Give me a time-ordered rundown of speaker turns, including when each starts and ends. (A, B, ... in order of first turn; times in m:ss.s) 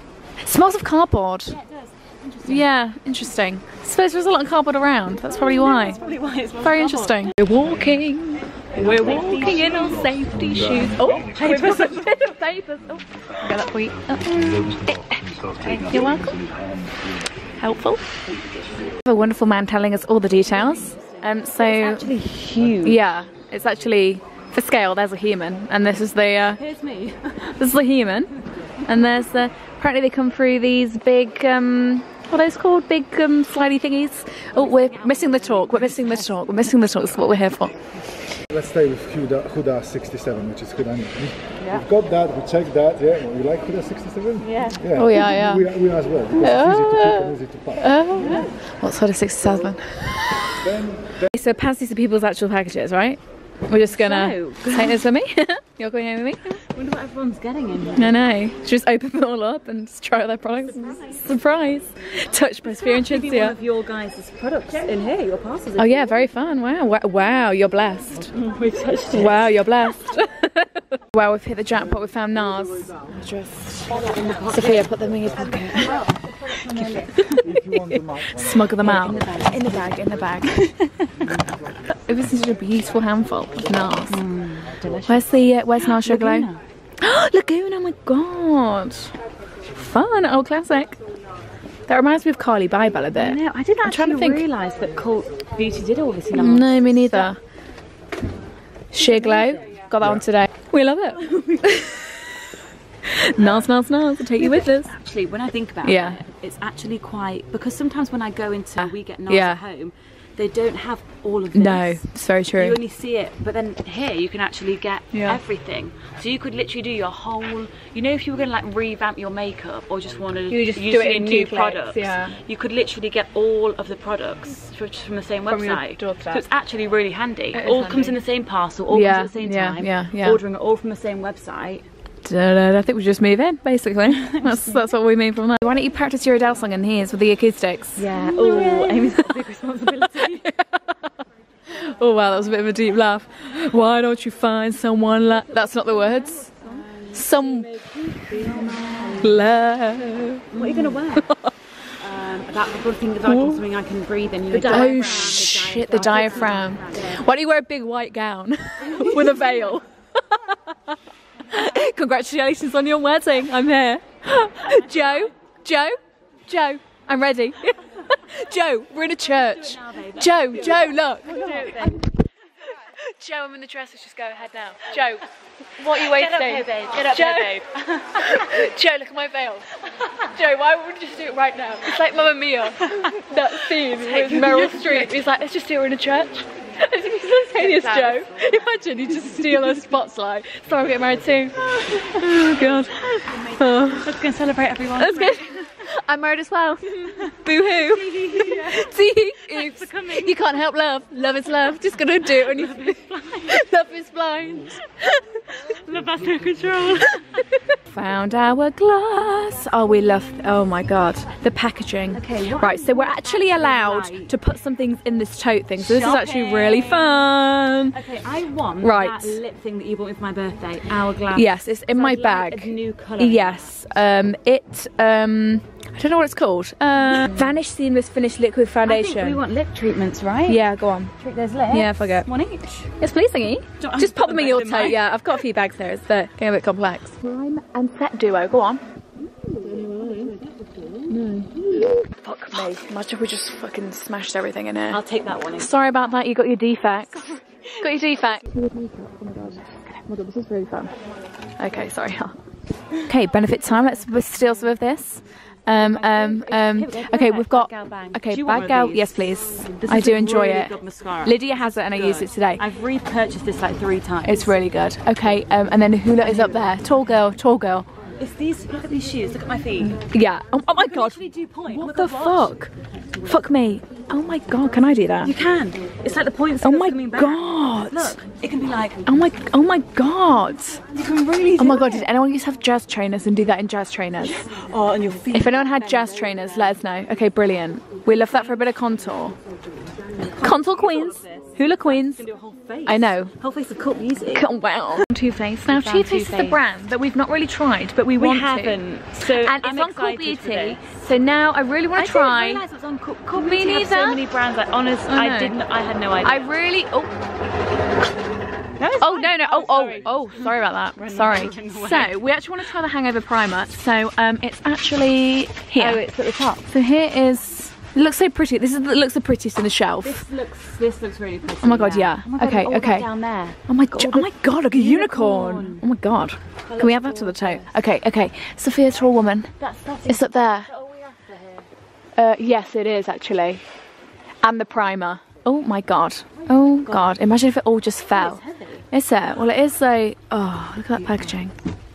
0:00.4-0:01.6 A
0:01.5-0:02.7 B
0:02.4-0:06.0 A
0:05.3-0:07.4 B
0:06.6-0:16.4 A
0:08.8-0:10.5 B
0:11.2-0:12.4 B
0:14.3-0:14.7 B
0:15.7-0:16.2 B
0:17.6-0:18.2 A
0:18.9-0:22.1 A
0:20.5-0:23.0 B
0:22.8-0:26.6 A
0:26.6-0:27.6 B
0:27.5-0:37.8 A
0:34.6-0:37.2 B
0:38.5-0:48.5 C
0:44.4-0:44.8 B
0:44.9-0:45.7 A
0:46.4-0:50.6 A
0:48.2-0:48.5 B
0:50.6-0:51.3 C
0:51.3-0:56.6 A
0:53.9-0:55.0 B
0:56.7-0:58.2 B
0:58.0-1:03.6 A
1:00.8-1:01.2 B
1:02.6-1:06.1 B
1:05.8-1:08.3 A
1:08.3-1:09.5 B
1:09.1-1:20.6 A
1:14.0-1:14.9 B
1:15.9-1:17.5 B
1:17.4-1:18.7 C
1:18.8-1:19.8 B
1:20.5-1:21.4 B
1:21.9-1:24.2 A
1:24.1-1:26.6 B
1:25.1-1:26.5 A
1:27.0-1:29.1 A
1:29.7-1:31.0 A
1:31.9-1:34.4 A
1:33.1-1:37.3 B
1:36.3-1:37.4 A
1:38.9-1:42.2 A
1:39.0-1:39.5 B
1:41.1-1:42.1 B
1:43.0-1:44.9 A
1:44.4-1:52.0 B
1:45.8-1:46.2 A
1:48.8-1:49.6 A
1:51.5-1:52.8 A
1:52.6-2:11.8 B
1:55.1-1:55.4 A
2:00.5-2:02.4 A
2:05.5-2:06.4 A
2:07.5-2:08.2 A
2:08.9-2:10.4 A
2:12.2-2:19.4 A
2:14.1-2:14.8 B
2:18.0-2:20.5 B
2:20.2-2:21.0 A
2:21.7-2:26.6 A
2:26.5-2:29.5 B
2:27.1-2:31.5 A
2:30.5-2:31.3 B
2:32.0-2:37.2 B
2:33.2-2:33.6 A
2:34.5-2:41.0 A
2:38.9-2:39.7 B
2:41.5-2:46.0 A
2:44.7-2:45.2 B
2:46.5-2:52.2 A
2:49.3-2:52.0 B
2:52.9-2:55.3 A
2:55.8-2:57.6 A
2:55.9-2:58.7 B
2:58.1-3:14.1 A
3:00.0-3:00.3 B
3:02.8-3:05.3 B
3:07.5-3:08.6 B
3:09.4-3:09.8 B
3:11.8-3:15.5 B
3:15.0-3:25.4 A
3:17.1-3:20.4 B
3:22.0-3:23.7 B
3:25.7-3:27.2 B
3:27.3-3:38.0 A
3:32.1-3:34.3 B
3:35.8-3:37.3 B
3:37.9-3:43.7 B
3:38.8-3:39.4 A
3:41.3-3:49.4 A
3:47.1-3:47.6 B
3:48.8-3:50.6 B
3:50.5-3:51.1 A
3:51.2-3:52.8 B
3:51.7-3:52.3 A
3:53.0-3:58.8 A
3:53.8-3:55.1 B
3:59.2-4:02.0 B
3:59.6-4:00.3 A
4:01.1-4:05.0 A
4:04.9-4:05.8 B
4:05.5-4:10.9 A
4:07.1-4:07.7 B
4:11.6-4:12.4 A
4:13.1-4:22.6 A
4:15.8-4:24.5 B
4:24.2-4:27.9 A
4:26.2-4:26.8 B
4:28.2-4:30.0 B
4:30.1-4:32.7 A
4:30.7-4:32.5 B
4:33.2-4:35.3 A
4:35.2-4:39.0 B
4:36.6-4:38.2 A
4:39.1-4:40.8 A
4:40.9-4:42.1 B
4:41.6-4:44.5 A
4:44.2-4:46.4 B
4:45.3-4:49.4 A
4:50.2-4:55.0 B
4:50.3-4:52.2 A
4:52.9-4:53.3 A
4:54.3-5:02.6 A
4:55.7-4:56.6 B
4:58.2-5:00.9 B
5:02.0-5:06.6 B
5:03.4-5:04.2 A
5:05.1-5:05.6 A
5:06.2-5:07.1 A
5:08.8-5:12.2 B
5:09.0-5:16.0 A
5:15.8-5:16.7 B
5:16.7-5:20.3 A
5:20.0-5:25.8 B
5:21.6-5:23.1 A
5:23.7-5:29.5 A
5:26.7-5:27.8 B
5:29.6-5:31.7 B
5:30.1-5:30.7 A
5:32.2-5:33.6 A
5:34.4-5:41.5 A
5:36.4-5:37.2 B
5:38.1-5:38.8 B
5:41.0-5:41.3 B